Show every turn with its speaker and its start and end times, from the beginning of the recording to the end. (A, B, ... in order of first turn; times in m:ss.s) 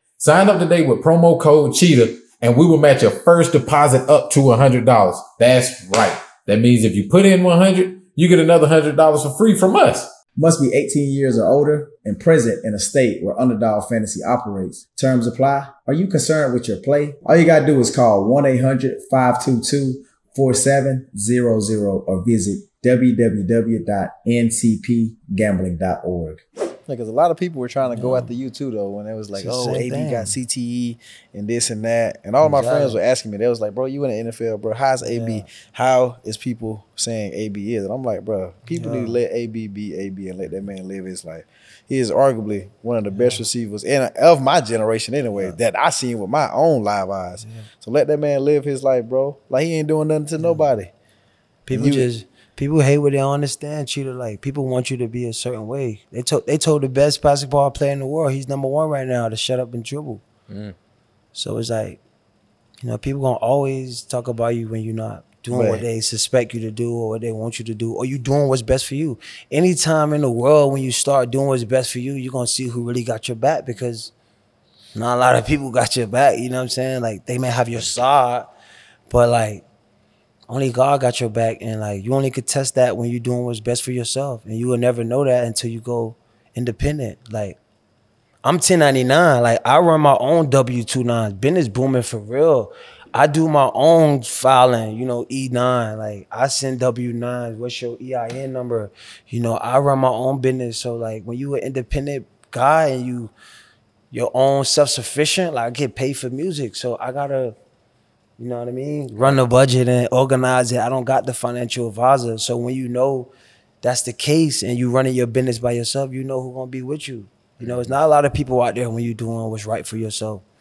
0:00.2-0:10.1 A
0:10.4-0:50.9 B
0:27.9-0:28.3 C
0:29.3-0:30.3 C
0:32.4-0:33.0 C
0:35.0-0:35.4 C
0:38.7-0:39.2 C
0:43.1-0:43.4 C
0:47.4-0:47.6 C
0:51.6-1:00.2 C
0:51.7-0:52.1 B
1:00.5-1:00.7 A
1:01.3-1:02.0 C
1:02.8-1:14.1 C
1:05.5-1:05.8 B
1:14.9-1:18.5 C
1:19.1-1:19.6 C
1:20.5-1:27.6 C
1:28.4-1:43.3 C
1:44.1-1:47.6 C
1:48.4-1:53.3 C
1:53.8-2:00.4 C
1:57.6-1:57.9 A